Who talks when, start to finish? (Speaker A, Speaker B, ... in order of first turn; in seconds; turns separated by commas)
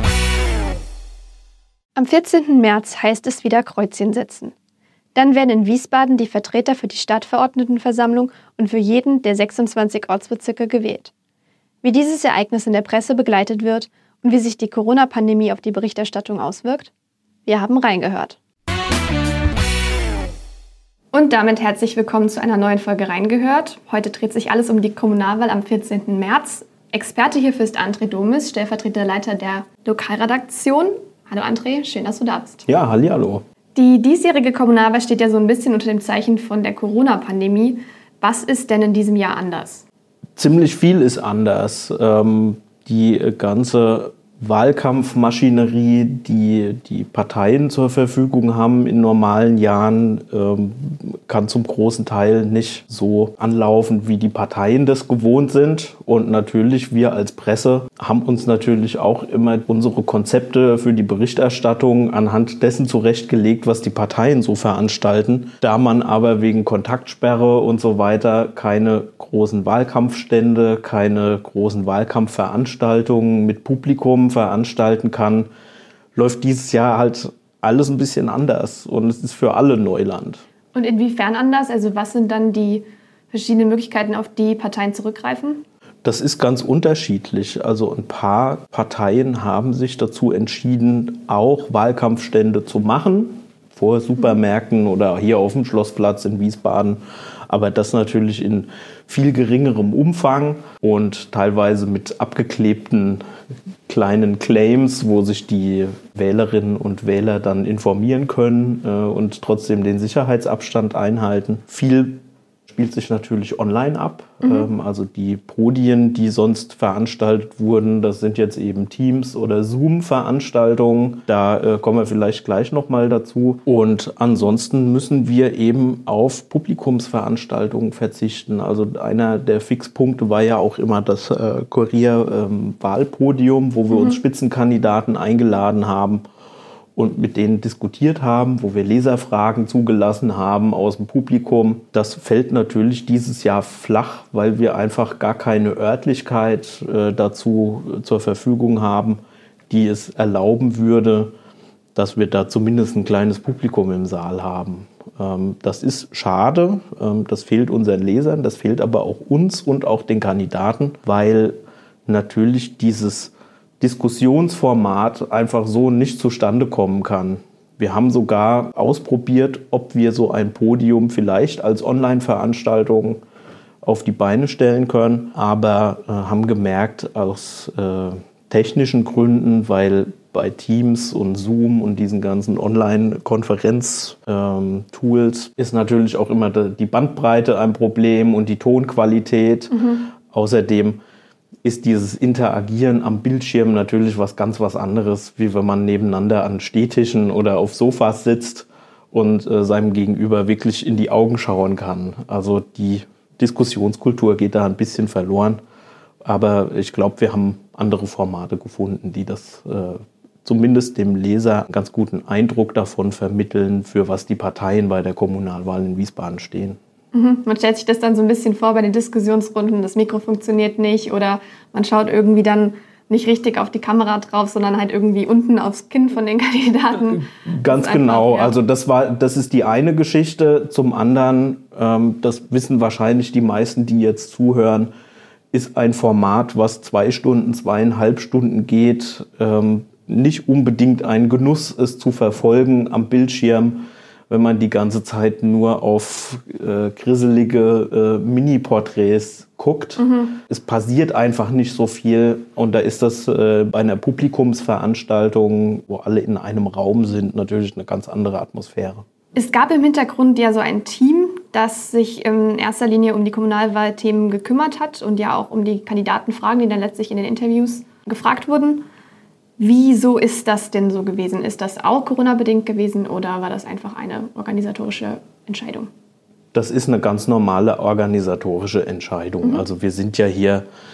Speaker A: 2.0-4.5, Speaker A: 5.2-11.1, Speaker A: 11.8-16.9, Speaker A: 17.5-18.4, Speaker A: 21.1-32.6, Speaker B: 32.7-33.4, Speaker A: 33.8-39.8, Speaker B: 40.4-75.5, Speaker B: 76.2-80.4, Speaker A: 80.7-85.6, Speaker B: 86.0-103.2, Speaker B: 103.9-136.2, Speaker A: 114.4-114.7, Speaker B: 136.9-151.3, Speaker B: 151.9-173.2, Speaker B: 173.8-191.0, Speaker A: 189.7-190.0, Speaker B: 191.6-205.6, Speaker B: 206.2-216.8, Speaker A: 217.1-228.6, Speaker B: 227.1-234.9, Speaker B: 235.5-259.0, Speaker A: 250.0-250.4, Speaker A: 259.4-268.9, Speaker A: 269.6-275.9, Speaker B: 276.5-280.6